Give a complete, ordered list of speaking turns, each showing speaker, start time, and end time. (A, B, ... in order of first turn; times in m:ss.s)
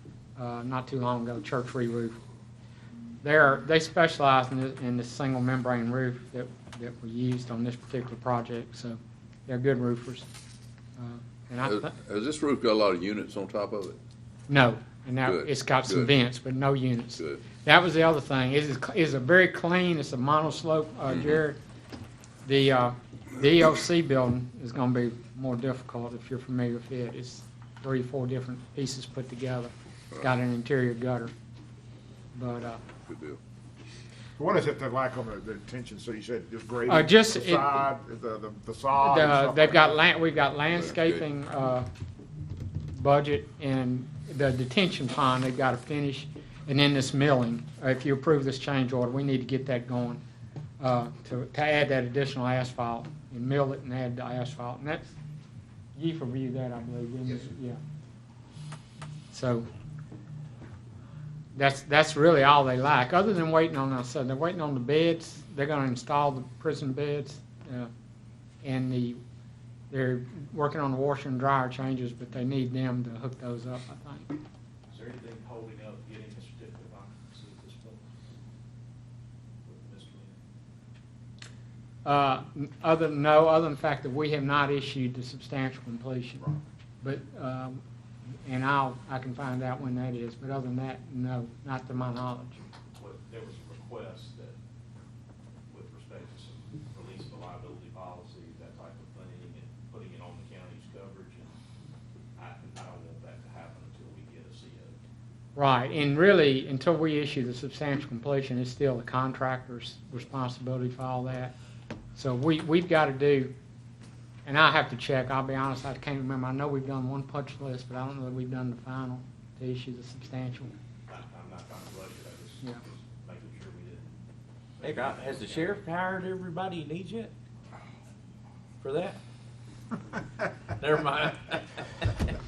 0:00.4-0:02.2 A
0:03.2-0:10.3 A
0:11.0-0:11.9 A
0:11.6-0:14.0 B
0:14.5-0:21.6 A
0:15.2-0:16.1 B
0:17.1-0:17.4 B
0:21.1-0:21.4 B
0:22.4-0:31.3 A
0:32.3-0:32.8 A
0:33.1-0:33.4 B
0:34.4-0:40.0 C
0:36.9-0:37.6 A
0:39.0-0:41.9 A
0:40.7-0:41.3 B
0:42.9-0:50.2 A
0:50.8-0:55.1 A
0:55.9-0:57.8 A
0:59.3-0:59.7 A
1:01.5-1:07.9 A
1:08.6-1:09.2 A
1:09.9-1:14.3 A
1:14.9-1:18.0 D
1:19.6-1:20.4 D
1:22.0-1:26.5 A
1:27.0-1:27.8 A
1:28.4-1:32.6 A
1:33.0-1:34.5 D
1:35.7-1:41.5 D
1:42.4-1:45.0 D
1:45.6-1:51.5 A
1:52.2-1:53.5 A
1:54.4-2:00.7 A
2:01.1-2:04.2 D
2:04.8-2:05.8 D
2:04.8-2:07.3 E
2:08.8-2:09.2 E
2:10.8-2:11.8 E